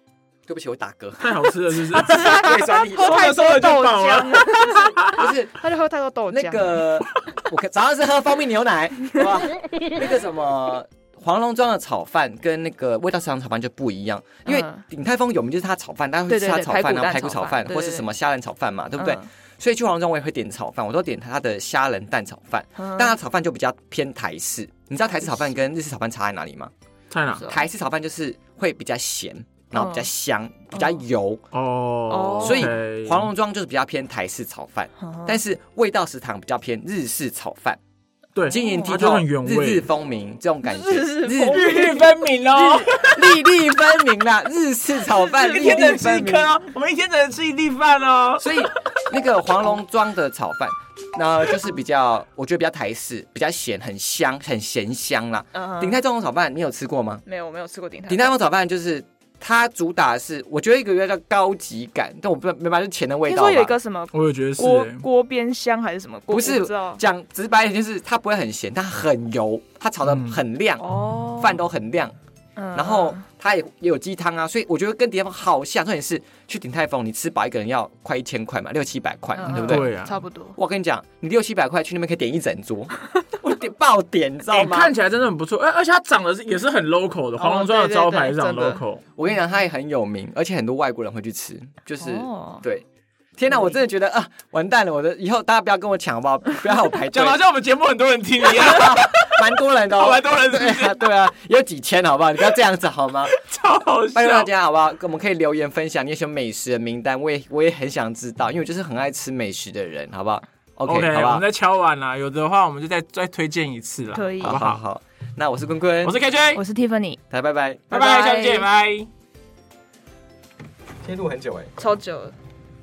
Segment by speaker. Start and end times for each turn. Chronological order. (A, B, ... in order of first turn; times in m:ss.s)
0:00.5-0:01.4 A
0:01.2-0:05.3 B
0:01.9-0:03.2 A
0:02.0-0:06.8 C
0:05.0-0:05.5 A
0:06.3-0:26.7 A
0:14.5-0:14.8 C
0:16.3-0:18.1 C
0:19.0-0:19.3 C
0:22.8-0:23.1 C
0:27.1-0:27.5 B
0:27.4-0:27.6 C
0:27.5-0:31.4 A
0:29.7-0:30.1 C
0:31.5-0:33.3 B
0:32.1-0:32.8 C
0:32.4-0:37.8 A
0:35.0-0:35.4 C
0:38.4-0:39.9 B
0:38.5-0:41.8 A
0:38.5-0:39.0 C
0:40.6-0:42.2 C
0:41.4-0:43.6 B
0:42.5-0:46.5 A
0:45.1-0:49.0 B
0:48.4-0:57.2 A
0:55.5-0:56.0 C
0:57.3-0:58.4 C
0:58.1-1:03.8 A
1:03.3-1:07.0 C
1:04.1-1:05.1 B
1:06.3-1:12.2 A
1:10.1-1:10.4 B
1:10.8-1:11.6 C
1:12.6-1:13.2 C
1:12.7-1:19.9 A
1:19.4-1:20.6 C
1:19.5-1:20.2 B
1:20.6-1:24.9 A
1:24.5-1:29.0 B
1:27.4-1:28.8 C
1:29.2-1:32.8 A
1:32.0-1:32.6 C
1:33.4-1:37.4 A
1:33.5-1:33.8 C
1:37.1-1:41.1 B
1:38.4-1:43.4 A
1:43.3-1:44.5 B
1:44.1-1:51.4 A
1:50.9-1:54.8 B
1:54.1-1:54.6 C
1:54.4-1:56.2 A
1:56.0-1:56.6 B
1:56.6-1:57.2 C
1:57.3-1:57.9 A
1:57.9-1:58.7 C
1:57.9-1:59.1 B
2:01.0-2:01.7 A
2:01.8-2:02.4 C